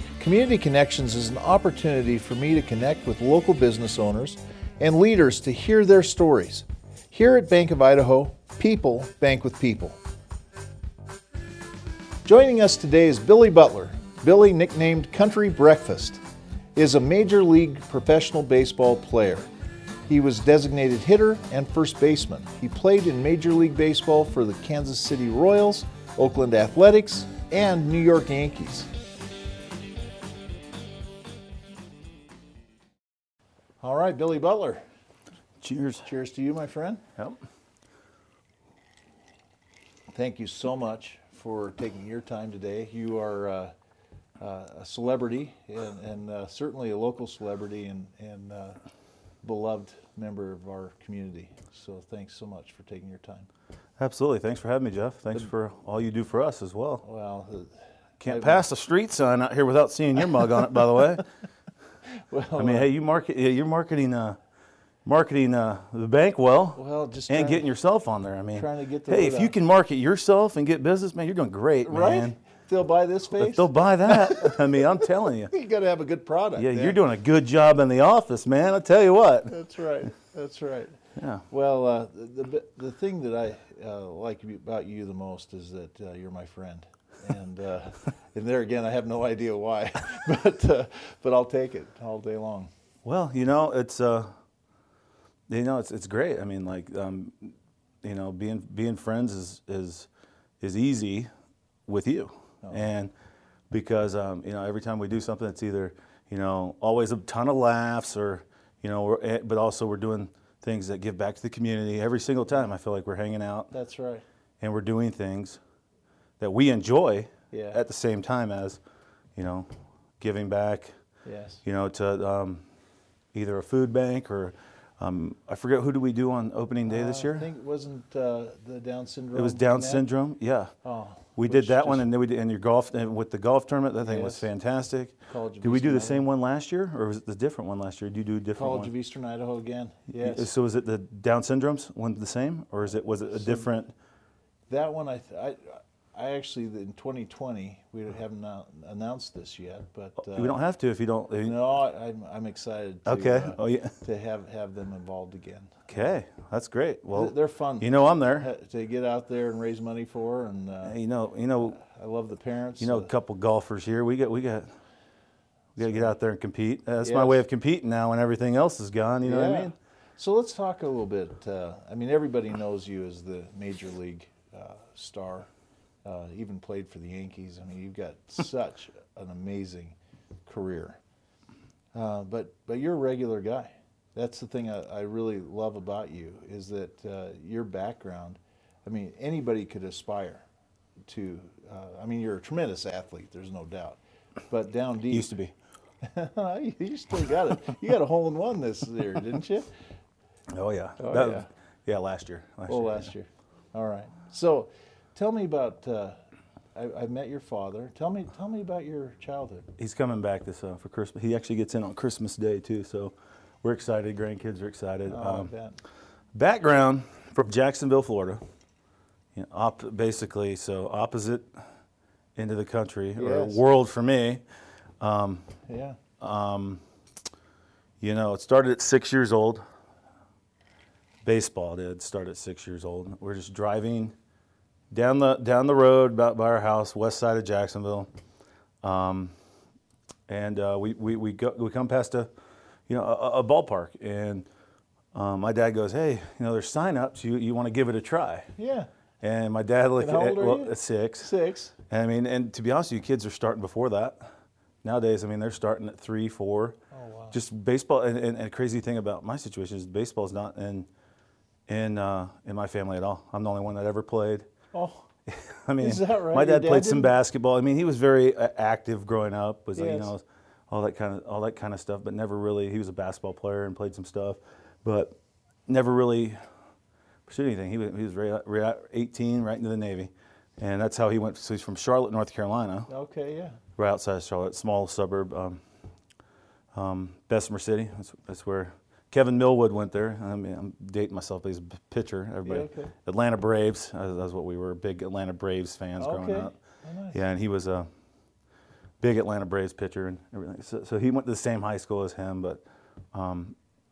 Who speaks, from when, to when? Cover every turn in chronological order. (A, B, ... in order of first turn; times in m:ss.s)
0:00.2-0:10.0 A
0:12.2-0:16.2 A
0:16.8-0:19.5 A
0:20.1-0:28.9 A
0:33.8-0:34.8 A
0:35.6-0:36.1 B
0:36.0-0:37.0 A
0:40.1-0:43.7 A
0:44.4-0:48.8 A
0:49.4-0:53.5 A
0:54.0-0:57.0 B
0:57.0-0:57.7 A
0:58.2-1:01.2 B
0:58.2-0:58.6 A
1:02.3-1:02.9 A
1:02.6-1:04.4 B
1:05.0-1:12.4 B
1:06.8-1:07.7 A
1:08.6-1:09.6 A
1:11.9-1:14.8 A
1:13.4-1:15.5 B
1:15.5-1:17.0 A
1:16.6-1:19.6 B
1:19.5-1:21.0 A
1:21.2-1:21.4 B
1:21.5-1:32.7 A
1:33.0-1:34.3 B
1:35.5-1:40.1 B
1:40.6-1:41.3 B
1:41.9-1:43.1 B
1:43.7-1:53.7 B
1:53.7-1:54.2 A
1:54.6-1:55.6 B
1:56.4-1:58.8 B
1:57.5-1:57.8 A
1:59.4-1:59.7 B
2:00.2-2:00.9 B
2:01.2-2:01.6 A
2:01.6-2:02.6 B
2:03.3-2:07.5 B
2:06.9-2:10.0 A
2:09.4-2:10.7 B
2:10.8-2:12.1 A
2:11.4-2:18.9 B
2:14.0-2:14.5 A
2:15.3-2:16.3 A
2:18.6-2:20.5 A
2:20.1-2:23.9 B
2:23.2-2:23.7 A
2:24.7-2:30.6 A
2:30.2-2:31.6 B
2:31.4-2:35.9 A
2:33.1-2:34.0 B
2:35.9-2:38.5 B
2:37.1-2:41.0 A
2:40.8-2:41.8 B
2:41.6-2:43.1 A
2:42.8-2:44.7 B
2:45.8-2:49.8 B
2:45.8-2:46.1 A
2:47.0-2:47.4 A
2:49.2-2:55.5 A
2:56.0-3:00.0 A
3:00.5-3:01.0 A
3:01.9-3:10.4 A
3:11.1-3:15.3 A
3:15.1-3:15.5 B
3:16.0-3:19.7 A
3:20.5-3:23.1 B
3:21.0-3:21.5 A
3:22.7-3:26.2 A
3:26.8-3:29.7 A
3:29.8-3:35.5 B
3:35.1-3:35.8 A
3:36.4-3:38.4 B
3:39.4-3:41.5 B
3:42.4-3:44.4 B
3:43.2-3:43.6 A
3:45.0-3:45.5 B
3:45.7-3:46.0 A
3:46.2-3:46.8 B
3:48.0-3:49.6 B
3:51.2-3:54.1 B
3:54.9-3:58.1 B
3:58.8-3:59.3 B
4:00.3-4:02.3 B
4:02.9-4:04.5 B
4:05.1-4:08.5 B
4:08.6-4:08.9 A
4:09.2-4:11.3 B
4:10.0-4:11.7 A
4:11.9-4:14.3 B
4:14.8-4:16.8 B
4:16.9-4:17.4 A
4:17.3-4:20.9 B
4:21.7-4:24.5 B
4:24.7-4:25.1 A
4:25.3-4:36.4 B
4:25.8-4:27.1 A
4:29.8-4:30.1 A
4:37.3-4:42.9 B
4:42.9-4:43.6 A
4:43.8-4:45.6 B
4:46.7-4:56.6 B
4:52.4-4:52.9 A
4:56.0-4:57.2 A
4:57.1-4:57.9 B
4:59.0-5:03.6 B